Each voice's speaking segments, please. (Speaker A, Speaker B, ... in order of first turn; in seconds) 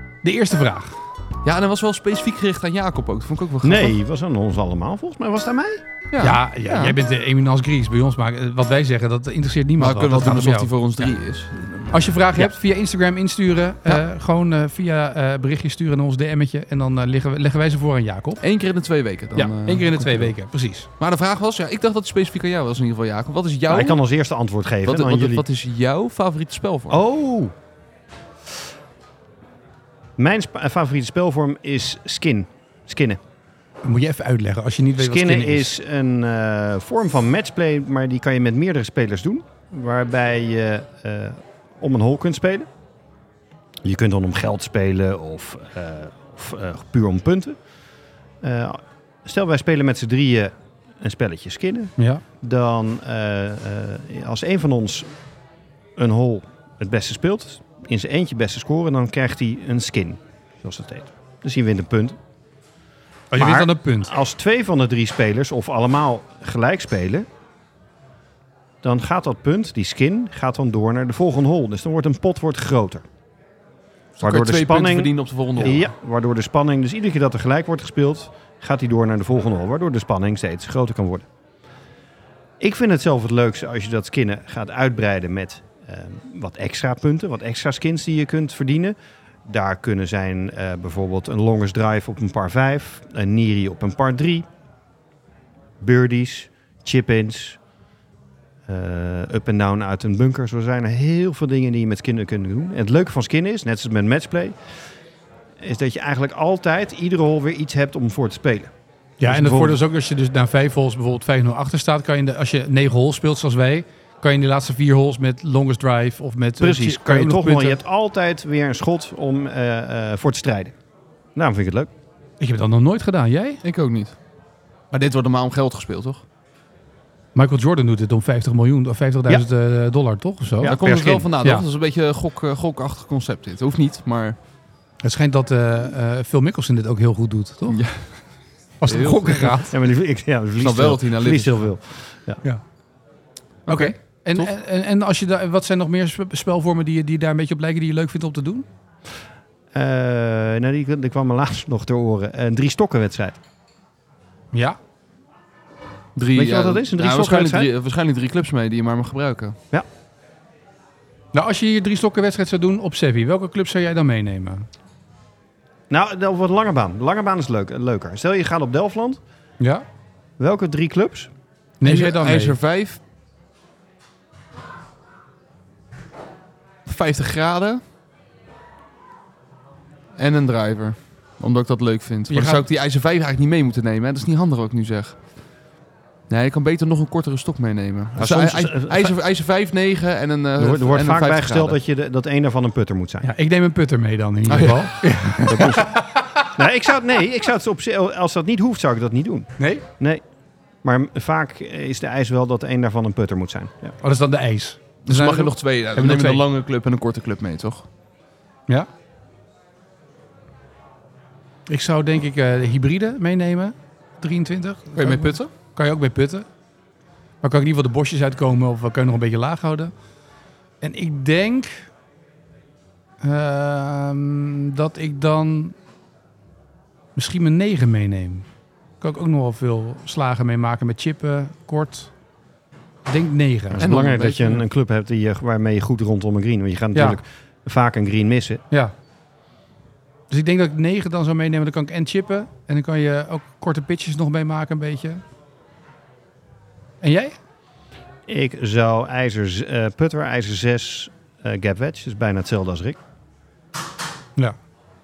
Speaker A: 0.2-0.9, 6.2-10.8, 11.9-18.4, 19.3-20.9, 33.8-35.7, 52.0-52.2, 63.3-64.1, 109.2-117.8, 122.4-123.6, 127.3-130.8, 135.0-137.8, 138.8-139.8, 143.7-148.7, 154.5-154.8, 161.3-164.7, 171.8-172.6, 182.3-182.6, 193.2-196.5, 199.6-199.8, 204.0-206.4, 211.7-216.5, 217.4-219.9, 220.8-221.9, 223.2-225.8, 227.2-228.4, 229.0-232.1, 233.1-233.8, 236.9-237.2, 240.3-245.2, 247.0-247.3
Speaker B: 1.4-4.0, 6.1-7.0, 9.8-12.5, 18.4-20.3, 21.0-24.0, 24.9-27.0, 74.2-75.9, 123.6-124.2, 124.9-126.2, 130.6-134.4, 137.7-138.2, 138.8-139.5, 140.6-141.7, 143.7-144.5, 156.2-159.6, 171.8-173.0, 176.9-177.8, 180.2-185.2, 186.3-191.8, 194.5-195.0, 205.1-207.9, 215.0-215.5, 233.8-234.6
Speaker C: 3.6-5.8, 23.7-25.4, 26.9-27.5, 30.2-33.2, 35.0-42.7, 43.9-47.6, 48.4-55.1, 56.0-62.2, 63.4-67.3, 68.8-73.0, 74.2-81.3, 82.6-89.0, 89.5-94.5, 95.8-97.6, 98.7-104.5, 105.6-108.7, 109.2-109.8, 116.6-120.7, 121.4-121.9, 130.6-131.3, 139.7-142.4, 149.7-153.4, 156.3-157.7, 165.9-169.2, 170.4-171.3, 188.2-189.2, 190.6-193.3, 195.4-195.9, 196.6-200.2, 200.8-203.9, 233.7-238.6, 248.3-253.0